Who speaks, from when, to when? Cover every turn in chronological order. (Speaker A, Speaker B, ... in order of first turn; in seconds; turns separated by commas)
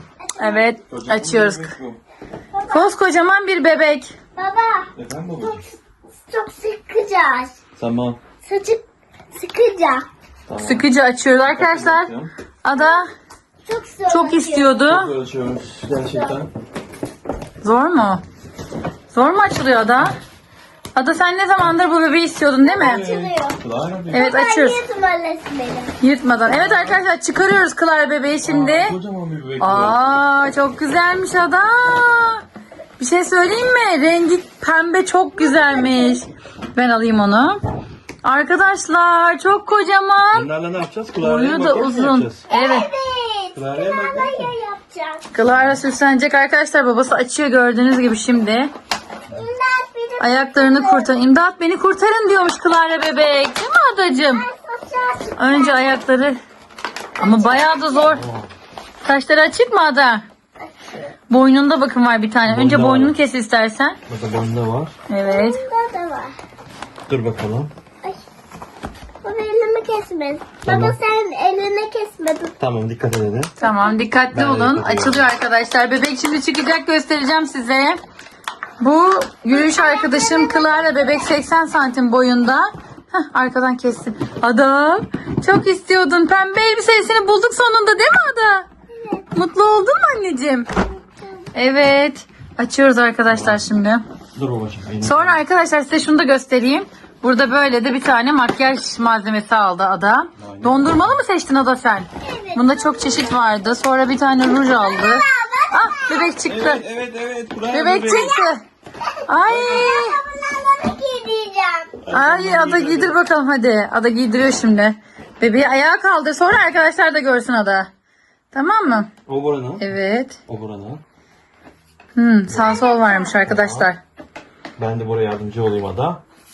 Speaker A: 0.2-0.8, Speaker B: 0.4-1.7, Speaker C: 0.9-2.0, Speaker A: 2.5-2.9, Speaker B: 2.7-4.1, Speaker A: 4.3-5.7, Speaker C: 5.0-5.6, Speaker A: 6.3-7.6, Speaker C: 7.8-8.2, Speaker A: 8.4-10.1, Speaker C: 10.5-10.9, Speaker B: 10.6-12.1, Speaker C: 11.4-12.3, Speaker B: 12.6-13.1, Speaker A: 12.7-13.0, Speaker A: 13.6-14.9, Speaker B: 14.1-15.1, Speaker C: 14.9-16.5, Speaker A: 16.0-16.4, Speaker B: 17.6-18.2, Speaker B: 19.1-20.2, Speaker B: 20.9-23.0, Speaker A: 22.6-23.6, Speaker C: 22.8-24.3, Speaker B: 24.1-24.8, Speaker A: 24.1-25.9, Speaker B: 26.0-28.9, Speaker C: 26.5-27.0, Speaker C: 28.4-30.0, Speaker B: 29.6-32.4, Speaker B: 33.0-37.6, Speaker A: 35.4-36.2, Speaker B: 38.2-40.5, Speaker C: 40.3-42.4, Speaker B: 41.2-42.9, Speaker A: 42.5-45.2, Speaker C: 43.5-44.5, Speaker B: 45.3-48.7, Speaker C: 45.4-45.8, Speaker A: 49.3-51.1, Speaker B: 50.2-54.4, Speaker A: 54.2-55.9, Speaker B: 55.4-56.4, Speaker A: 57.2-58.1, Speaker B: 57.2-58.2, Speaker C: 58.1-58.5, Speaker B: 59.0-60.2, Speaker B: 61.3-64.0, Speaker C: 62.5-63.1, Speaker C: 64.1-64.9, Speaker B: 65.1-65.6, Speaker A: 65.2-66.3, Speaker C: 67.1-67.7, Speaker A: 69.2-72.5, Speaker C: 70.7-71.0, Speaker C: 72.6-73.5, Speaker B: 73.6-78.0, Speaker C: 74.3-75.2, Speaker B: 78.8-88.7, Speaker A: 79.5-81.3, Speaker A: 88.9-89.2, Speaker B: 89.3-90.7, Speaker A: 91.0-91.5, Speaker B: 91.5-94.0, Speaker C: 93.3-93.6, Speaker C: 94.3-95.4, Speaker B: 95.0-106.8, Speaker C: 100.4-101.2, Speaker A: 102.2-103.5, Speaker A: 104.4-106.3, Speaker C: 106.4-108.3, Speaker B: 107.7-108.6, Speaker A: 108.1-108.5, Speaker B: 109.3-110.2, Speaker C: 109.5-109.9, Speaker A: 109.5-112.0, Speaker C: 112.0-113.2, Speaker B: 112.1-117.9, Speaker B: 118.5-119.1, Speaker C: 119.3-119.9, Speaker B: 119.8-120.4, Speaker C: 120.5-121.0, Speaker B: 122.2-124.0, Speaker C: 122.5-122.8, Speaker A: 122.5-123.4, Speaker C: 123.4-123.9, Speaker C: 124.8-126.2